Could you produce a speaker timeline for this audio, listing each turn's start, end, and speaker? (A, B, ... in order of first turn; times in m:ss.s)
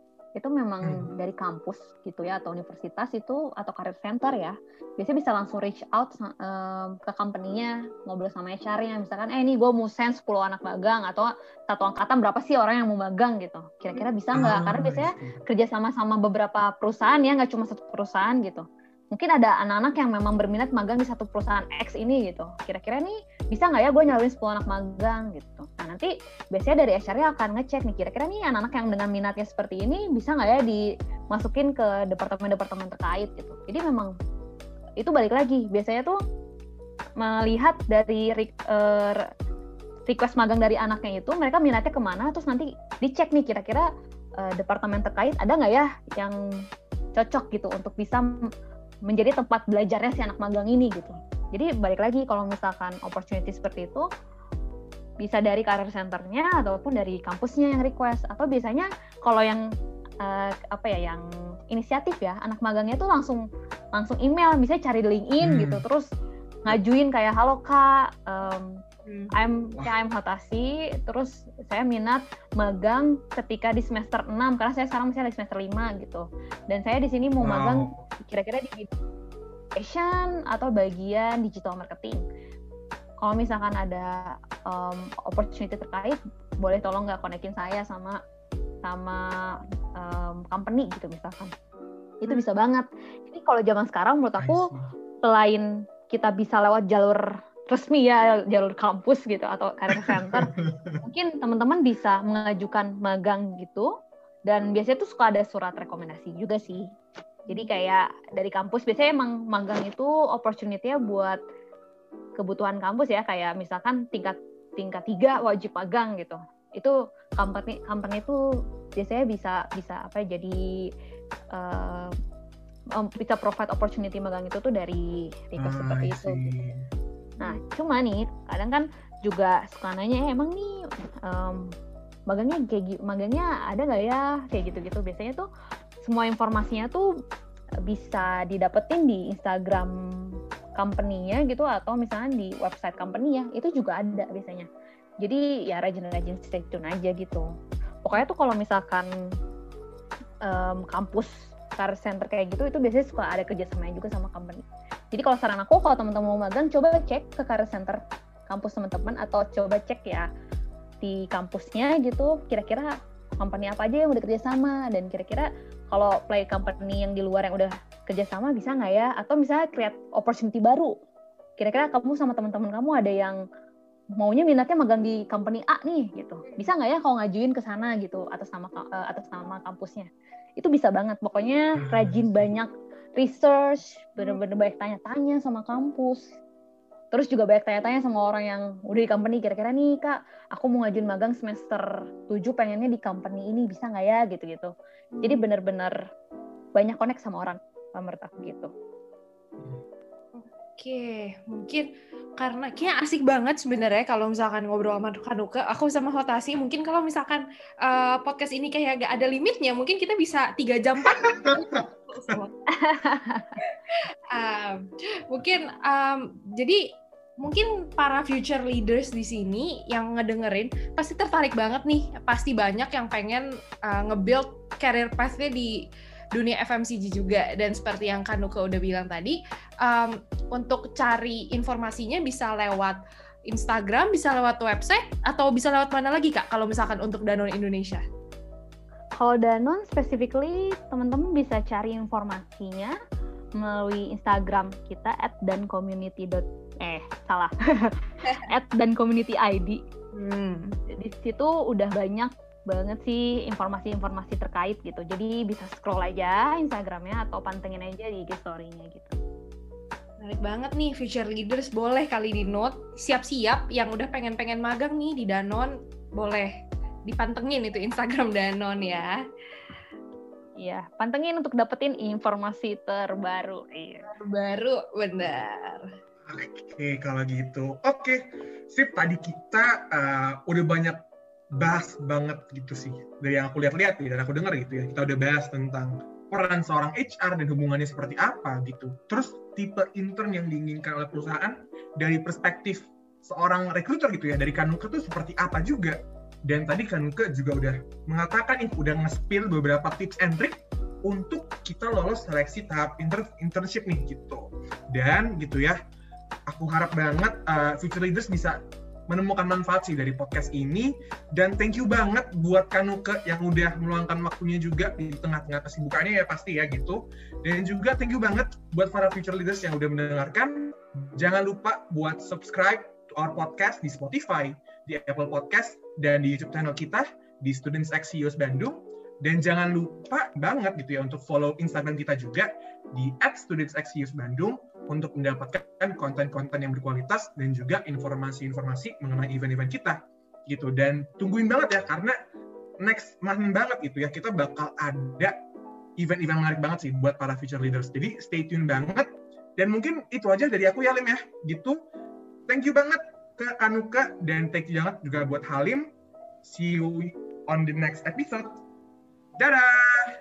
0:00.4-0:34.1 A
0:00.8-0:01.1 B
0:14.3-0:15.4 B
0:35.0-0:36.2 A
0:37.2-0:39.2 A
0:40.1-0:46.4 A
0:47.2-0:48.4 A
0:49.1-0:54.0 A
0:55.2-0:59.6 A
1:00.2-1:03.4 A
1:03.9-1:06.1 A
1:05.4-1:05.8 B
1:06.6-1:08.8 A
1:09.0-1:09.3 C
1:09.3-1:18.9 A
1:17.4-1:18.0 B
1:19.8-1:22.2 A
1:23.2-1:28.2 A
1:28.8-1:31.5 A
1:32.2-1:34.7 A
1:34.4-1:34.9 B
1:35.2-1:43.9 A
1:39.9-1:41.0 B
1:44.5-1:46.8 A
1:47.5-1:51.4 A
1:52.4-1:58.4 A
1:58.9-2:00.6 A
2:01.5-2:02.1 A
2:03.0-2:06.5 A
2:05.6-2:06.8 B
2:07.4-2:11.7 A
2:12.3-2:15.5 A
2:16.0-2:17.0 A
2:17.8-2:24.7 A
2:25.2-2:27.4 A
2:28.0-2:29.1 A
2:30.4-2:40.3 A
2:41.0-2:50.9 A
2:51.6-2:53.4 A
2:54.2-3:06.3 A
2:56.4-2:56.7 C
3:01.8-3:02.5 B
3:07.1-3:14.7 A
3:15.1-3:15.4 C
3:15.2-3:16.0 A
3:16.8-3:18.7 A
3:20.3-3:21.9 C
3:22.4-3:32.5 C
3:31.1-3:31.6 B
3:32.7-3:33.6 A
3:33.6-3:36.8 C
3:37.4-3:45.8 C
3:46.3-3:58.0 C
3:59.2-4:03.0 A
4:03.6-4:09.8 A
4:10.1-4:10.8 C
4:10.9-4:19.1 A
4:20.2-4:26.5 C
4:27.0-4:29.2 C
4:30.6-4:34.0 A
4:34.1-4:35.9 C
4:36.2-4:41.0 B
4:41.5-5:05.8 B
5:06.5-5:08.6 B
5:09.1-5:42.2 B
5:42.8-5:45.4 B
5:46.0-5:51.8 B
5:52.5-5:55.9 B
5:56.4-5:58.5 B
5:59.4-6:00.1 B